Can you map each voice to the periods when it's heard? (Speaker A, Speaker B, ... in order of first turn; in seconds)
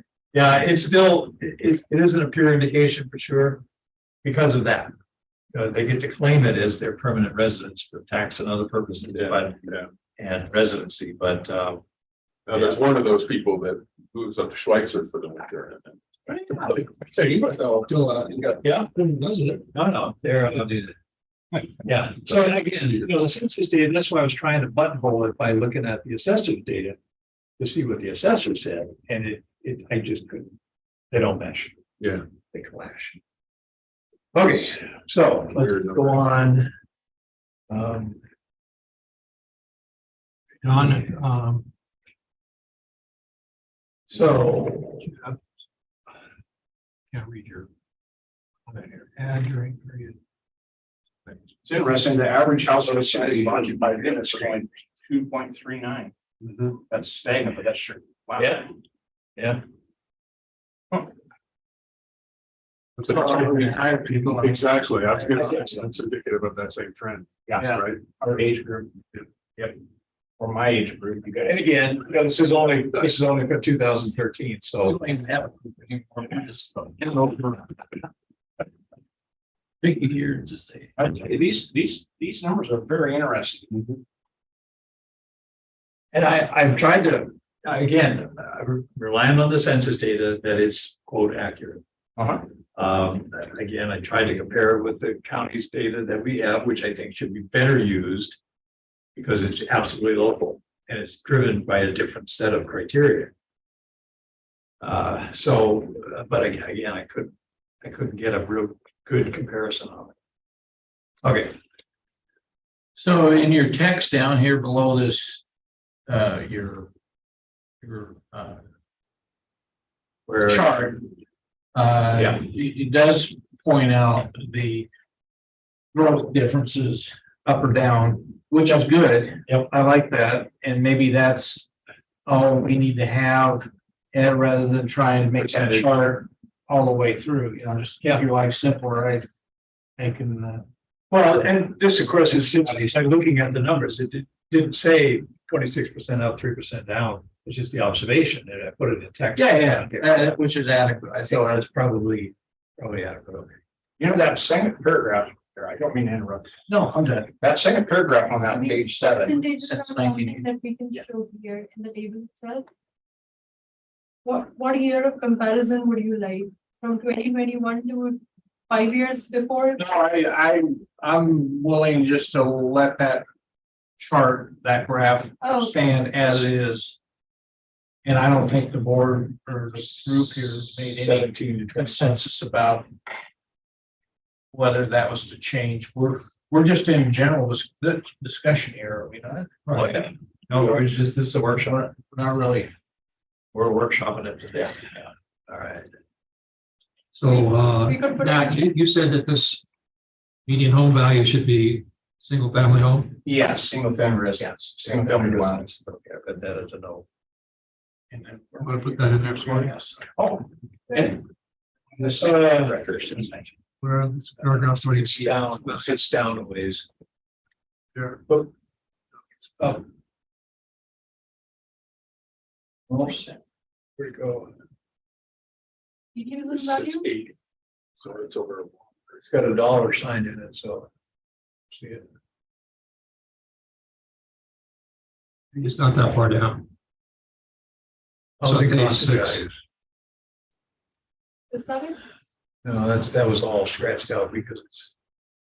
Speaker A: 0.3-3.6, 4.2-4.9, 5.5-9.6, 10.2-11.8, 16.3-16.9, 18.6-18.9, 19.7-21.0, 21.8-27.0, 27.6-30.5, 31.1-31.7, 32.5-33.2, 34.3-36.7, 37.7-38.2, 44.1-45.1, 47.3-47.6, 58.4-58.7, 59.4-59.6, 71.4-75.0, 79.8-80.5, 86.1-91.8, 92.8-98.4, 99.2-103.3, 104.8-110.2, 111.2-111.6, 120.3-120.7, 122.1-122.4, 135.4-135.8, 141.1-150.3, 151.2-153.6, 156.7-157.3, 181.0-182.1, 189.7-191.9, 193.5-195.9, 204.4-207.1, 212.0-213.3, 215.0-216.9, 219.6-219.8, 222.9-223.3, 224.0-224.5, 229.2-230.9, 231.7-232.0, 238.4-239.4, 242.7-244.9
Speaker B: 9.2-9.9, 12.5-16.0, 35.5-36.2, 52.9-54.5, 63.0-68.0, 226.5-227.3, 228.0-229.2
Speaker C: 17.1-19.6, 40.7-41.6, 189.7-190.0, 197.2-199.6, 200.5-203.2, 208.6-209.8, 213.8-215.9, 235.6-236.7, 238.4-239.5
Speaker D: 51.6-56.1, 56.9-58.7, 67.5-69.8, 70.4-71.6, 81.0-83.9, 92.2-92.4, 154.0-156.6, 157.4-159.5, 203.2-205.7, 210.1-211.2, 212.0-213.4
Speaker E: 63.0-64.7, 74.9-77.5, 113.0-115.4, 116.1-116.9, 117.8-118.6, 120.4-121.1, 121.7-124.9, 125.9-131.7, 132.3-139.3, 140.0-140.7, 149.4-151.5, 169.8-173.2, 174.0-177.0, 178.1-182.9, 184.5-189.7, 192.0-192.7, 208.1-208.5
Speaker F: 158.4-162.7, 164.2-170.2, 175.4-176.0, 197.2-198.8, 226.2-227.1, 241.5-242.0